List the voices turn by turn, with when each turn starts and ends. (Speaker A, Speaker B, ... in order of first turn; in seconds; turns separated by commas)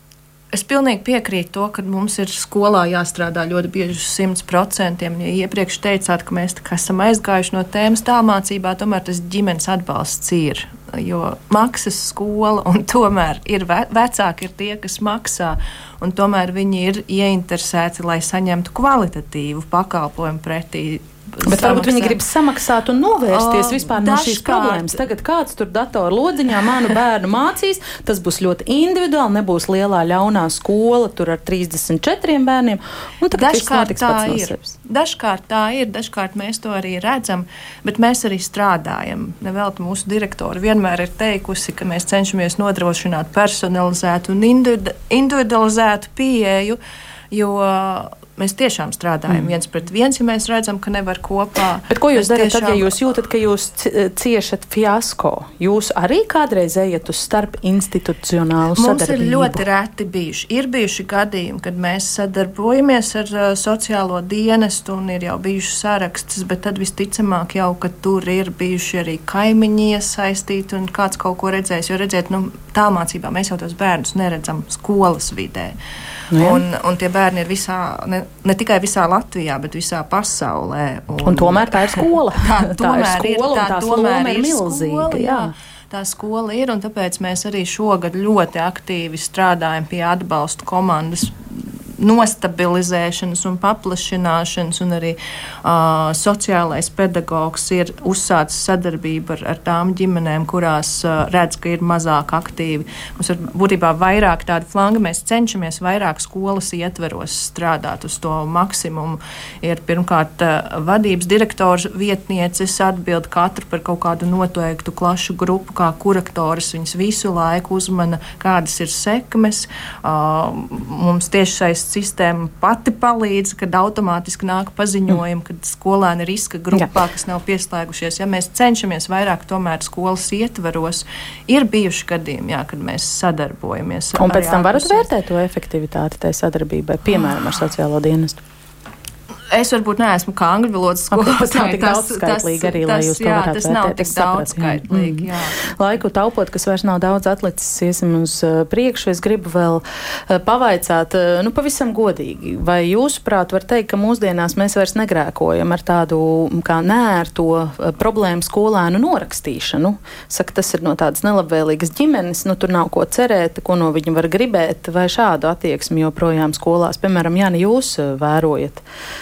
Speaker A: 0.5-22.2, Speaker B: 21.4-34.8, Speaker A: 23.3-25.0, Speaker A: 33.3-46.8, Speaker A: 47.3-53.0, Speaker B: 51.9-59.6, Speaker A: 58.8-75.8, Speaker B: 76.3-76.6, Speaker A: 76.3-135.1, Speaker B: 81.2-85.5, Speaker B: 134.2-138.4, Speaker A: 139.5-145.6, Speaker B: 141.1-168.8